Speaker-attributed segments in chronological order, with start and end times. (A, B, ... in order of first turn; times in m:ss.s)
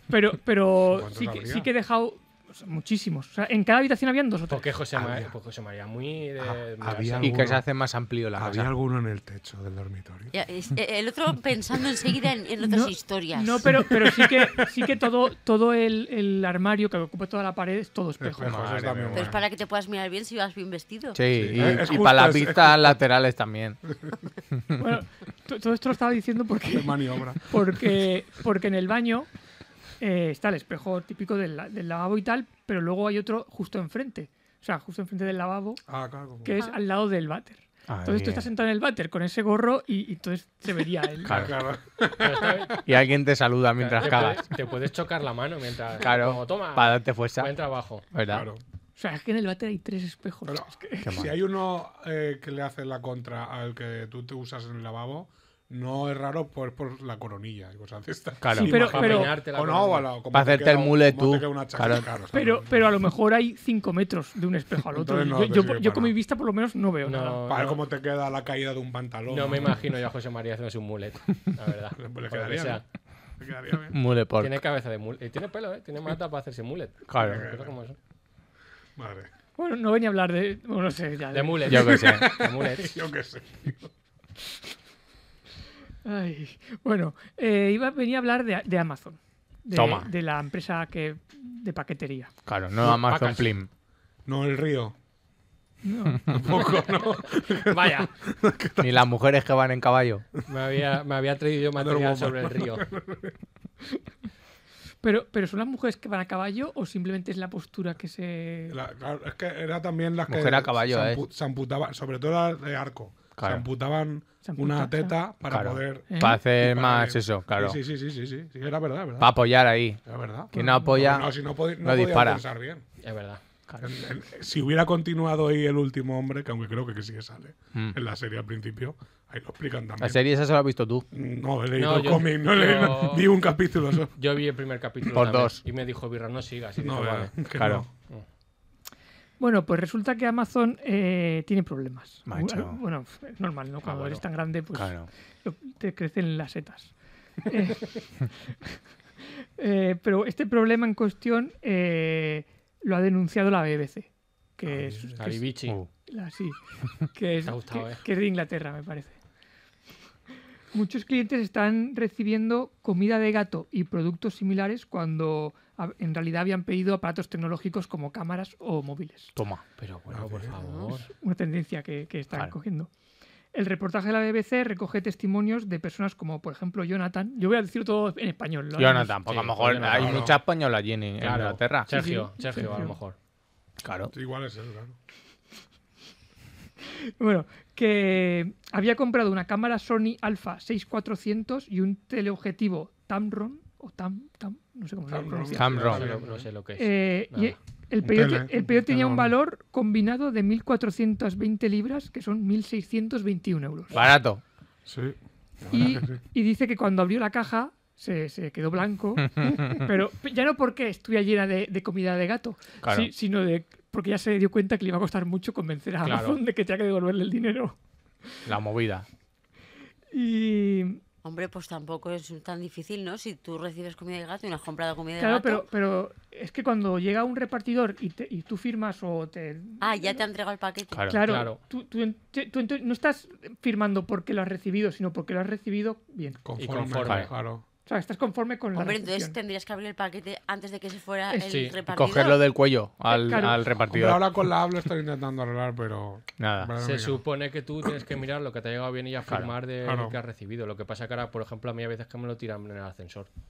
0:00.1-0:04.7 A
0:00.9-0:01.7 B
0:04.5-0:07.4 C
0:04.9-0:05.3 B
0:06.4-0:07.6 B
0:07.2-0:08.7 D
0:08.4-0:10.3 B
0:10.3-0:13.8 E
0:12.6-0:18.6 A
0:13.9-0:14.7 B
0:18.2-0:19.4 B
0:18.4-0:19.3 D
0:19.1-0:21.2 E
0:21.1-0:23.8 D
0:21.3-0:23.0 B
0:24.8-0:29.3 A
0:26.7-0:27.6 B
0:30.0-0:35.8 A
0:35.9-0:36.6 B
0:36.4-0:41.4 A
0:37.9-0:38.5 D
0:41.2-0:41.5 D
0:41.2-0:42.9 B
0:42.2-0:42.8 C
0:42.8-0:44.5 D
0:43.8-0:48.0 C
0:46.0-0:47.5 D
0:48.1-0:48.5 D
0:48.3-0:48.6 B
0:49.0-0:51.2 A
0:50.4-1:02.9 B
0:51.0-0:51.3 D
0:58.4-0:58.8 D
0:58.5-0:59.4 A
0:58.7-1:00.1 C
1:00.3-1:02.1 D
1:02.3-1:07.4 A
1:04.9-1:06.1 B
1:07.0-1:07.8 C
1:07.5-1:09.8 B
1:09.3-1:12.8 C
1:12.0-1:12.8 B
1:13.4-1:14.0 B
1:13.9-1:14.6 D
1:14.4-1:18.0 C
1:17.1-1:17.4 D
1:17.2-1:17.7 B
1:19.0-1:19.3 B
1:19.6-1:21.9 A
1:21.3-1:23.0 C
1:21.7-1:22.3 D
1:21.8-1:23.9 B
1:26.0-1:32.3 A
1:29.7-1:30.1 D
1:32.4-1:33.7 D
1:32.9-1:33.5 C
1:34.2-1:34.9 B
1:35.8-1:36.4 A
1:36.3-1:39.1 B
1:37.5-1:38.1 C
1:38.8-1:40.2 D
1:40.5-1:42.8 C
1:41.8-1:43.4 B
1:45.0-1:48.8 A
1:48.7-1:59.3 B
1:50.3-1:51.2 D
1:53.4-1:53.6 D
1:54.4-1:55.1 A
1:55.5-1:57.8 D
1:56.1-1:56.4 A
1:59.2-2:00.0 D
2:00.0-2:02.8 B
2:00.5-2:01.1 A
2:00.5-2:02.4 D
2:03.0-2:03.4 C
2:03.7-2:03.9 D
2:03.8-2:10.2 B
2:10.0-2:11.0 D
2:11.1-2:14.1 B
2:11.8-2:13.3 C
2:14.1-2:17.3 C
2:15.1-2:15.6 D
2:16.8-2:17.9 B
2:17.5-2:17.8 D
2:19.4-2:26.9 A
2:22.3-2:22.8 D
2:23.8-2:24.2 C
2:24.7-2:25.1 D
2:27.4-2:28.7 A
2:29.6-2:39.2 A
2:34.6-2:35.2 B
2:35.2-2:35.8 C
2:37.4-2:38.0 C
2:40.7-2:49.3 A
2:49.4-2:49.6 D
2:49.8-2:51.1 C
2:50.1-2:50.5 B
2:50.6-2:51.0 E
2:51.1-2:52.9 A
2:53.5-2:59.2 A
2:58.8-3:02.0 D
2:59.3-3:00.3 C
2:59.8-3:00.4 B
3:01.2-3:03.2 C
3:01.9-3:02.9 A
3:03.8-3:04.1 D
3:04.1-3:05.0 B
3:07.2-3:16.0 A
3:15.1-3:16.5 B
3:15.5-3:16.0 D
3:15.7-3:17.6 C
3:16.8-3:24.0 A
3:18.0-3:19.3 B
3:23.9-3:24.4 D
3:24.9-3:26.2 B
3:25.7-3:37.8 A
3:29.4-3:29.7 D
3:32.8-3:33.1 D
3:36.0-3:36.4 C
3:38.4-3:39.0 D
3:40.1-3:41.0 A
3:41.2-3:45.6 E
3:45.2-3:50.2 A
3:49.8-3:51.1 E
3:50.9-3:51.2 D
3:51.1-3:56.4 A
3:51.2-3:51.6 C
3:56.4-3:57.6 B
3:56.6-3:57.3 C
3:57.8-3:59.4 A
3:58.7-4:02.4 E
4:01.3-4:01.6 A
4:01.5-4:01.8 C
4:01.9-4:04.4 D
4:03.1-4:03.6 A
4:03.9-4:07.2 B
4:06.4-4:06.7 D
4:06.8-4:13.3 C
4:09.8-4:10.1 B